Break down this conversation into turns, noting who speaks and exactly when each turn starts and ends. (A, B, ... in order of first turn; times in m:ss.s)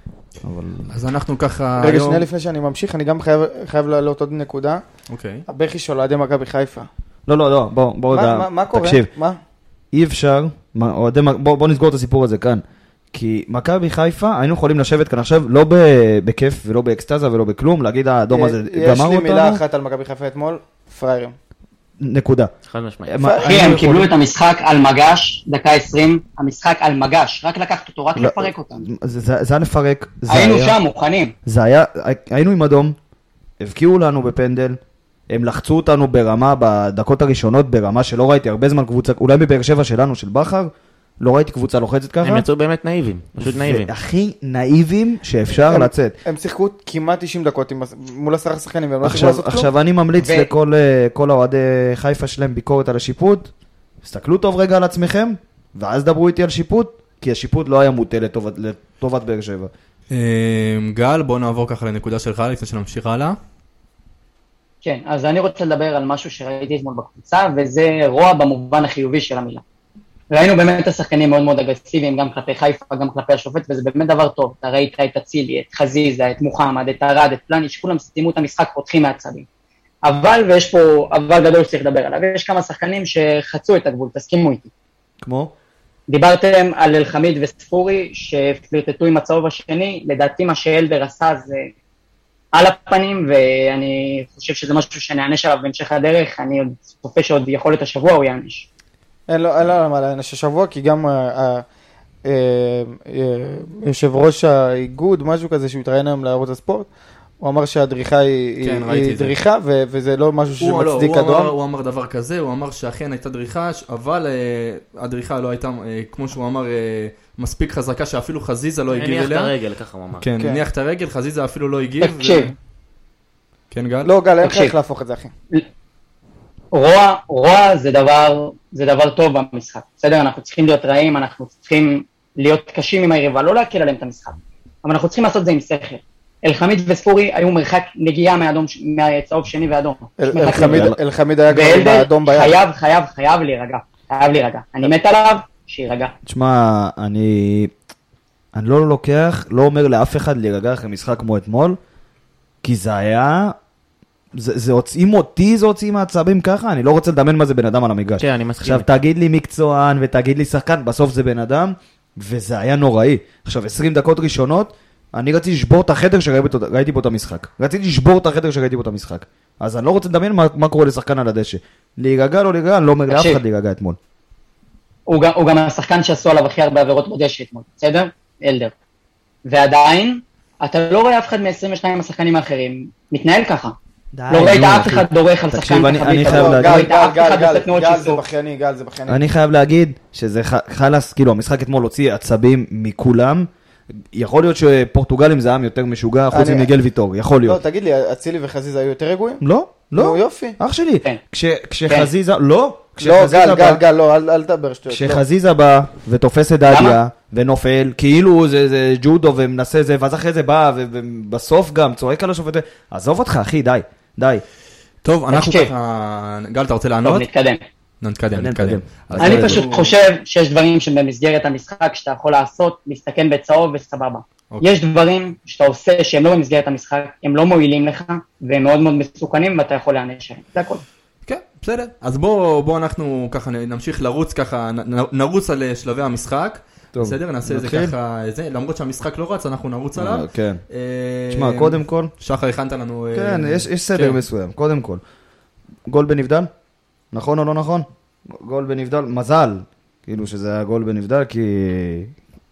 0:00.4-0:00.9 A
0:00.9-0:02.3 B
0:01.8-0:04.8 C
0:05.1-0:05.4 B
0:05.5-0:06.9 C
0:07.3-0:09.1 A
0:08.1-0:09.4 C
0:09.9-0:19.6 A
0:18.3-0:21.3 C
0:22.0-0:22.5 A
0:22.7-0:23.2 D
0:23.0-0:24.1 A
0:23.2-0:23.7 C
0:23.3-0:28.9 E
0:28.2-0:30.8 A
0:30.3-0:31.3 E
0:31.4-0:33.0 A
0:33.6-0:42.4 A
0:42.2-0:43.9 D
0:43.4-0:46.2 A
0:45.6-0:49.7 C
0:49.0-0:59.7 A
0:50.2-0:50.5 E
1:00.1-1:03.4 B
1:04.8-1:09.6 E
1:10.3-1:19.4 E
1:20.0-1:24.7 E
1:25.2-1:25.5 A
1:26.1-1:31.7 E
1:32.5-1:38.7 E
1:39.3-1:41.6 C
1:42.2-1:46.9 C
1:47.4-1:51.5 C
1:48.6-1:49.4 B
1:50.6-1:59.5 B
1:58.9-2:00.3 D
2:00.2-2:02.5 B
2:00.4-2:00.6 C
2:02.0-2:02.5 E
2:03.7-2:04.1 B
2:04.0-2:05.3 C
2:04.4-2:04.7 E
2:06.7-2:20.9 E
2:20.2-2:22.6 C
2:20.5-2:21.0 A
2:21.5-2:26.1 E
2:26.2-2:27.7 A
2:28.5-2:31.8 A
2:32.6-2:33.6 A
2:34.3-2:54.0 A
2:38.2-2:38.8 D
2:53.1-2:53.4 E
2:55.1-2:58.7 E
2:59.4-3:03.8 E
3:04.1-3:06.9 A
3:04.3-3:08.2 E
3:06.2-3:09.2 C
3:09.1-3:13.5 A
3:14.1-3:17.6 A
3:16.3-3:16.7 C
3:17.4-3:19.4 C
3:19.4-3:23.8 A
3:20.0-3:20.6 C
3:23.0-3:25.2 C
3:24.9-3:34.4 A
3:26.6-3:27.0 E
3:35.0-3:37.2 B
3:35.3-3:35.7 E
3:37.0-3:37.6 E
3:38.0-3:39.9 B
3:38.3-3:39.6 A
3:39.2-3:50.8 E
3:51.2-4:04.2 B
3:56.9-3:57.9 A
4:00.0-4:00.6 A
4:01.3-4:02.1 A
4:03.1-4:05.0 A
4:05.9-4:06.5 A
4:07.1-4:12.1 A